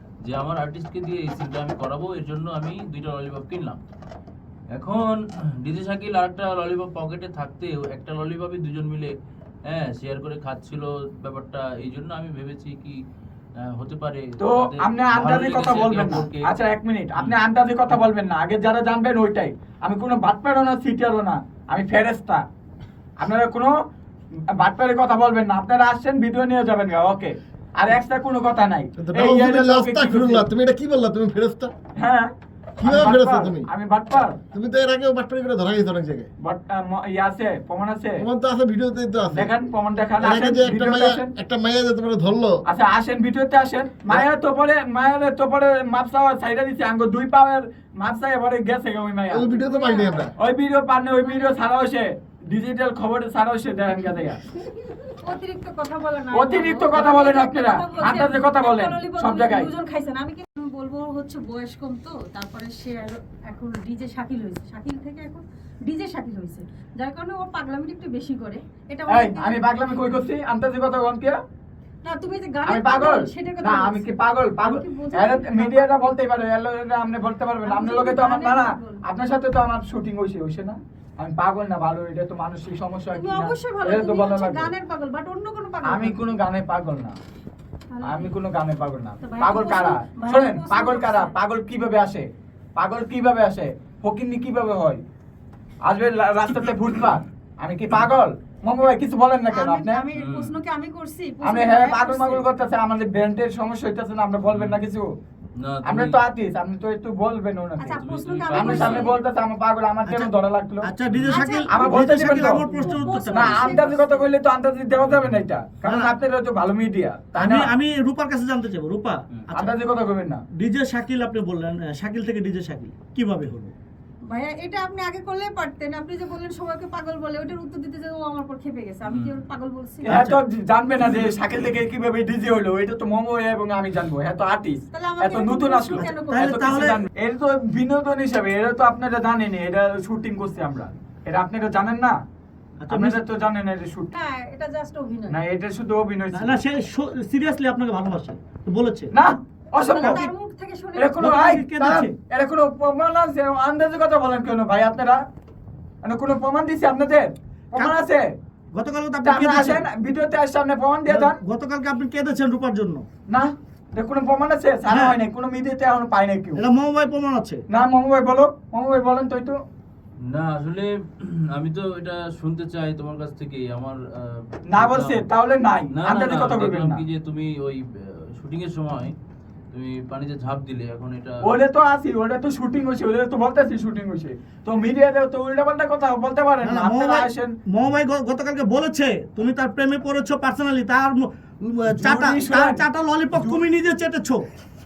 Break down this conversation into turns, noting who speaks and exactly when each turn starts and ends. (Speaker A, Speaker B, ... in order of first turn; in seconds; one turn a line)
Speaker A: 0.2-3.8
Speaker A: 4.7-9.1
Speaker A: 9.7-13.0
Speaker A: 13.6-16.4
Speaker B: 14.4-22.4
Speaker B: 23.2-23.7
Speaker B: 24.6-30.5
Speaker C: 29.0-31.7
Speaker B: 31.9-32.3
Speaker C: 32.8-33.7
Speaker B: 32.8-34.4
Speaker C: 34.5-36.3
Speaker B: 36.4-38.2
Speaker C: 38.2-39.5
Speaker B: 39.3-41.3
Speaker C: 40.2-42.6
Speaker B: 42.7-49.6
Speaker C: 49.3-50.3
Speaker D: 49.5-50.3
Speaker B: 50.4-54.4
Speaker D: 51.2-51.6
Speaker D: 55.2-69.6
Speaker B: 56.3-59.7
Speaker B: 69.1-71.4
Speaker D: 72.0-74.0
Speaker B: 72.6-84.7
Speaker D: 74.6-76.0
Speaker D: 77.6-79.0
Speaker D: 83.1-86.2
Speaker B: 85.8-87.1
Speaker D: 87.9-88.3
Speaker B: 88.0-92.2
Speaker D: 89.2-91.3
Speaker B: 92.8-95.0
Speaker B: 95.8-100.0
Speaker D: 99.5-102.4
Speaker A: 100.1-100.5
Speaker B: 101.4-105.1
Speaker A: 105.6-106.1
Speaker B: 105.8-110.9
Speaker D: 107.8-109.2
Speaker A: 108.0-109.1
Speaker E: 110.0-110.3
Speaker E: 110.8-113.7
Speaker A: 111.1-111.5
Speaker D: 111.3-114.3
Speaker B: 111.7-112.7
Speaker B: 113.3-117.7
Speaker A: 115.0-115.4
Speaker E: 115.8-116.1
Speaker E: 117.4-119.7
Speaker B: 119.5-120.4
Speaker E: 120.5-123.7
Speaker D: 124.2-130.2
Speaker A: 129.1-129.4
Speaker B: 130.0-142.1
Speaker E: 130.1-130.4
Speaker D: 134.9-136.6
Speaker E: 136.3-137.0
Speaker E: 142.8-143.2
Speaker B: 142.9-144.1
Speaker D: 144.1-145.4
Speaker B: 145.3-146.6
Speaker E: 146.3-149.1
Speaker B: 149.1-150.3
Speaker D: 149.8-151.2
Speaker E: 150.0-150.2
Speaker B: 151.0-155.2
Speaker E: 151.2-152.1
Speaker B: 156.0-158.2
Speaker E: 158.7-159.9
Speaker B: 159.2-161.4
Speaker E: 161.1-163.1
Speaker B: 163.3-166.6
Speaker E: 164.9-165.2
Speaker E: 166.6-167.6
Speaker B: 167.7-169.6
Speaker A: 170.3-175.2
Speaker B: 174.7-177.0
Speaker A: 175.9-177.8
Speaker A: 178.4-179.1
Speaker A: 179.7-181.3
Speaker B: 181.4-187.5
Speaker E: 186.6-194.4
Speaker B: 191.9-193.6